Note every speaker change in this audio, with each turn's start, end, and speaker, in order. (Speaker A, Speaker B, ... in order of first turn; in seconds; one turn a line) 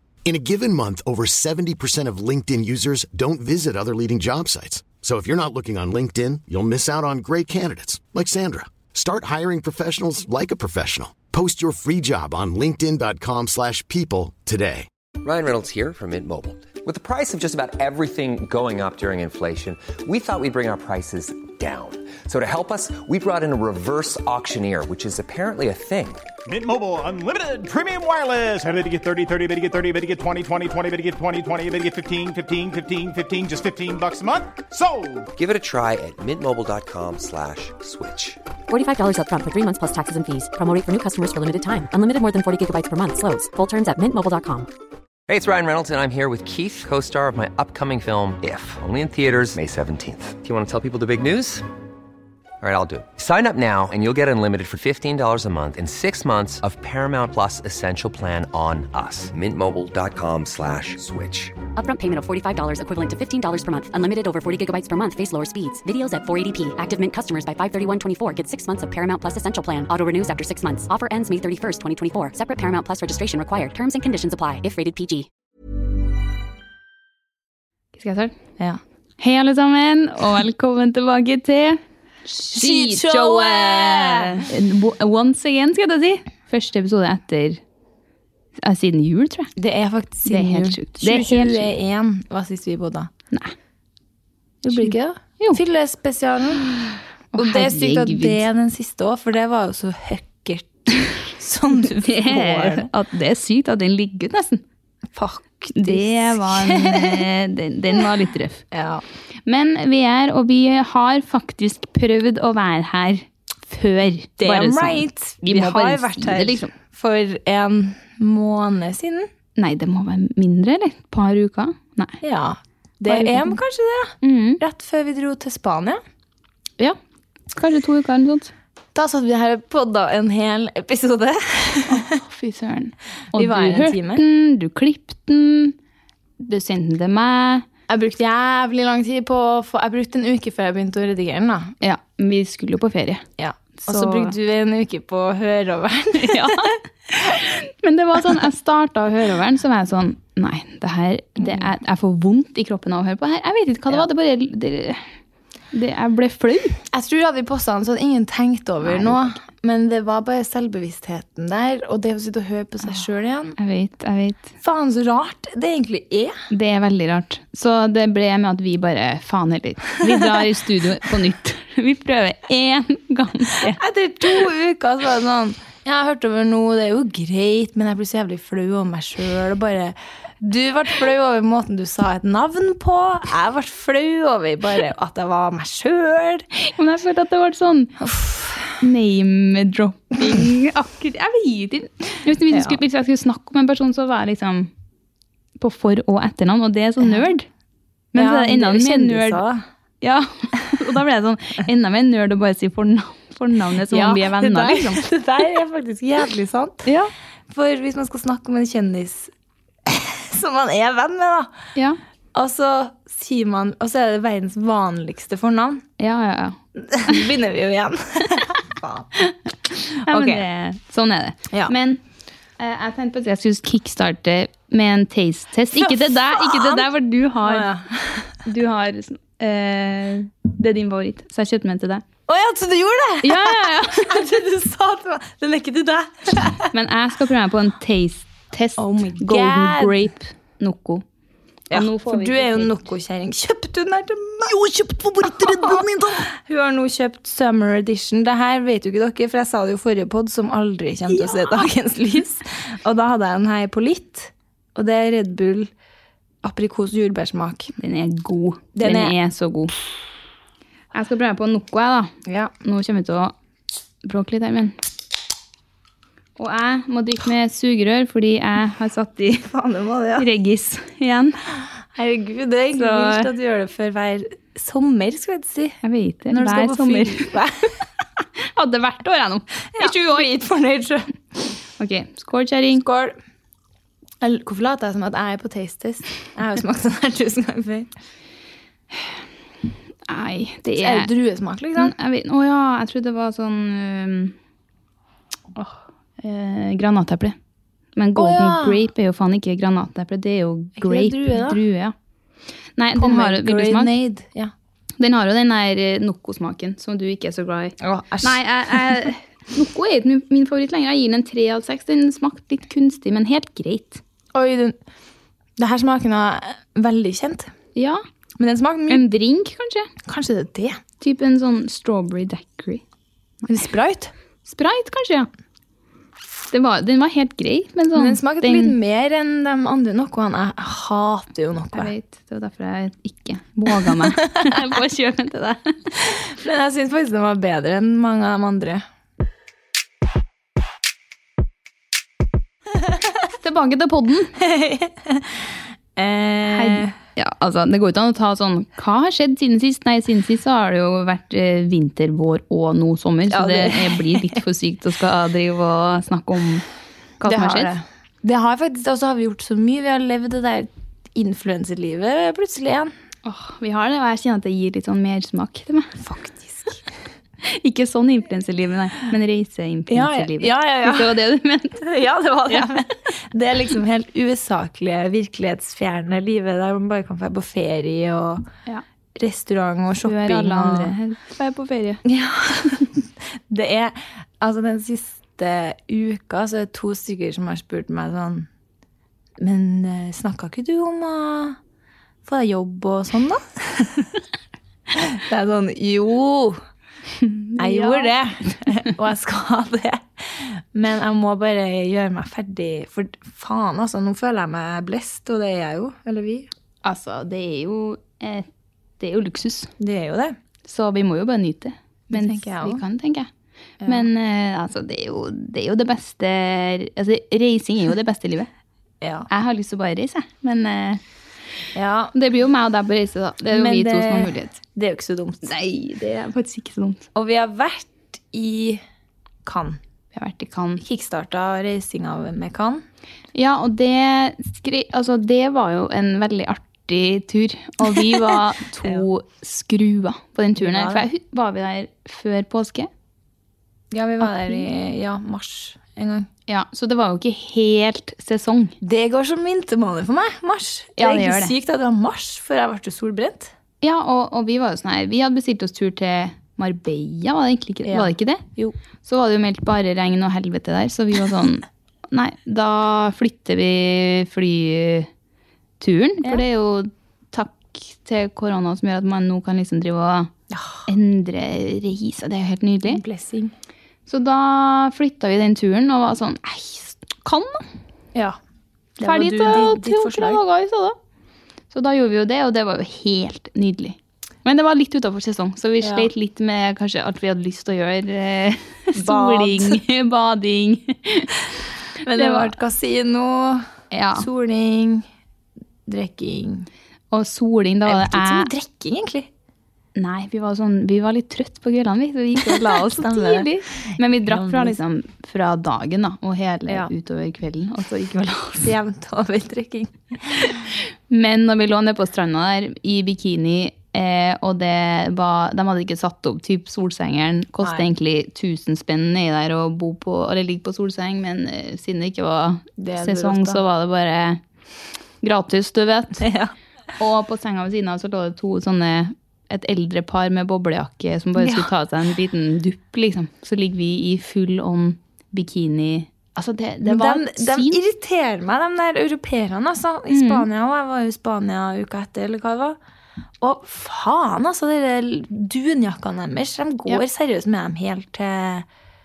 Speaker A: 0.2-14.9
Speaker B: 15.2-26.2
Speaker C: 26.5-35.3
Speaker B: 35.4-38.4
Speaker D: 38.7-44.7
Speaker B: 45.3-51.6
Speaker B: 52.6-61.6
Speaker D: 61.8-75.3
Speaker E: 78.0-78.3
Speaker E: 79.2-87.6
Speaker F: 82.5-84.5
Speaker E: 88.6-89.5
Speaker F: 89.6-93.1
Speaker E: 90.2-91.7
Speaker F: 94.6-102.9
Speaker E: 94.7-95.6
Speaker E: 97.3-98.4
Speaker E: 102.0-104.6
Speaker F: 105.1-107.2
Speaker E: 105.7-108.6
Speaker F: 108.7-109.0
Speaker E: 109.5-116.7
Speaker F: 114.4-119.3
Speaker E: 119.5-122.2
Speaker F: 122.2-126.0
Speaker E: 123.0-123.6
Speaker E: 124.2-124.6
Speaker E: 127.5-128.5
Speaker F: 128.9-132.2
Speaker E: 131.9-135.8
Speaker F: 133.3-134.2
Speaker E: 136.4-137.7
Speaker F: 137.9-141.7
Speaker E: 141.8-143.2
Speaker F: 143.4-146.7
Speaker E: 143.8-144.3
Speaker E: 146.2-155.1
Speaker F: 151.4-151.7
Speaker E: 155.7-156.8
Speaker F: 156.9-163.6
Speaker E: 158.8-159.2
Speaker E: 163.6-164.5
Speaker F: 164.6-166.3
Speaker E: 166.5-173.8
Speaker F: 173.7-186.4
Speaker E: 186.6-187.9
Speaker F: 188.0-188.8
Speaker E: 188.8-194.7
Speaker F: 192.5-192.8
Speaker E: 195.6-197.5
Speaker E: 198.1-199.4
Speaker F: 198.1-199.6
Speaker E: 200.0-205.0
Speaker F: 203.9-206.9
Speaker E: 206.8-207.1
Speaker F: 207.5-209.3
Speaker F: 209.8-211.5
Speaker F: 212.3-215.8
Speaker E: 216.0-217.2
Speaker F: 216.8-219.1
Speaker E: 219.2-222.0
Speaker F: 220.1-220.4
Speaker E: 222.6-227.7
Speaker F: 225.8-226.9
Speaker F: 227.4-228.3
Speaker E: 228.4-232.0
Speaker F: 232.3-236.7
Speaker E: 233.2-234.2
Speaker E: 236.7-241.0
Speaker F: 238.8-240.0
Speaker E: 241.7-242.8
Speaker F: 241.7-255.7
Speaker E: 245.2-245.8
Speaker E: 251.1-251.5
Speaker F: 256.4-257.7
Speaker E: 257.8-259.7
Speaker F: 258.8-259.1
Speaker E: 260.9-262.1
Speaker F: 262.2-262.5
Speaker E: 262.6-263.3
Speaker E: 264.0-264.7
Speaker E: 266.4-269.5
Speaker F: 269.5-270.3
Speaker E: 270.2-271.4
Speaker F: 271.9-275.8
Speaker E: 272.7-273.3
Speaker E: 275.8-277.3
Speaker F: 276.3-277.8
Speaker E: 278.4-280.3
Speaker F: 279.7-281.1
Speaker E: 281.8-282.8
Speaker F: 282.8-283.1
Speaker F: 284.2-287.9
Speaker E: 290.1-291.1
Speaker F: 290.8-291.9
Speaker E: 291.8-294.3
Speaker E: 296.2-297.4
Speaker E: 297.9-301.9
Speaker F: 298.1-298.8
Speaker F: 300.8-301.6
Speaker E: 302.8-303.9
Speaker F: 303.0-304.5
Speaker E: 305.0-314.0
Speaker F: 307.8-309.0
Speaker F: 314.3-314.8
Speaker F: 315.6-317.5
Speaker E: 317.8-318.0
Speaker F: 318.4-319.1
Speaker E: 318.9-319.9
Speaker F: 320.1-320.8
Speaker E: 321.0-322.8
Speaker F: 323.5-324.1
Speaker E: 324.4-325.3
Speaker E: 326.5-328.7
Speaker F: 327.9-331.9
Speaker E: 331.7-335.7
Speaker F: 336.2-338.8
Speaker E: 343.4-344.3
Speaker F: 344.4-346.9
Speaker E: 346.5-356.6
Speaker F: 353.3-354.4
Speaker E: 357.2-357.7
Speaker F: 357.2-362.9
Speaker E: 363.2-365.9
Speaker F: 366.0-366.8
Speaker E: 367.4-371.8
Speaker F: 369.9-371.1
Speaker F: 371.8-378.4
Speaker F: 379.2-380.9
Speaker E: 380.0-382.0
Speaker F: 382.0-388.5
Speaker F: 389.4-391.6
Speaker F: 392.2-394.1
Speaker F: 394.9-396.6
Speaker E: 397.2-398.1
Speaker F: 397.6-406.5
Speaker E: 406.8-408.5
Speaker E: 409.0-409.7
Speaker F: 409.8-410.4
Speaker E: 410.7-413.3
Speaker F: 412.1-412.8
Speaker F: 413.8-414.1
Speaker E: 413.9-418.5
Speaker F: 419.0-419.3
Speaker E: 419.3-421.0
Speaker F: 421.7-422.1
Speaker E: 422.1-424.6
Speaker F: 423.5-425.5
Speaker E: 425.4-427.1
Speaker F: 427.1-428.8
Speaker F: 429.4-429.8
Speaker E: 430.1-430.8
Speaker F: 430.8-432.8
Speaker E: 433.3-442.9
Speaker F: 438.3-439.0
Speaker F: 440.6-441.0
Speaker F: 443.9-446.3
Speaker E: 444.2-444.6
Speaker E: 446.5-448.7
Speaker F: 448.8-453.5
Speaker E: 451.0-451.5
Speaker E: 453.8-458.4
Speaker F: 457.9-458.7
Speaker E: 459.0-465.1
Speaker E: 465.8-470.3
Speaker F: 470.5-470.8
Speaker E: 470.9-473.0
Speaker F: 472.9-473.5
Speaker E: 474.1-477.6
Speaker F: 479.0-480.4
Speaker E: 479.0-480.9
Speaker E: 481.7-491.3
Speaker F: 485.8-486.1
Speaker F: 488.9-489.8
Speaker F: 492.0-495.1
Speaker E: 492.1-492.5
Speaker E: 493.9-494.2
Speaker F: 495.9-496.7
Speaker E: 497.1-498.5
Speaker F: 497.9-499.3
Speaker E: 499.9-508.7
Speaker F: 502.4-504.8
Speaker F: 508.6-510.6
Speaker E: 511.1-524.4
Speaker F: 522.8-523.6
Speaker E: 525.2-526.2
Speaker F: 526.2-526.5
Speaker E: 527.0-537.8
Speaker F: 531.4-531.7
Speaker F: 536.8-542.8
Speaker E: 540.1-540.4
Speaker F: 543.4-548.6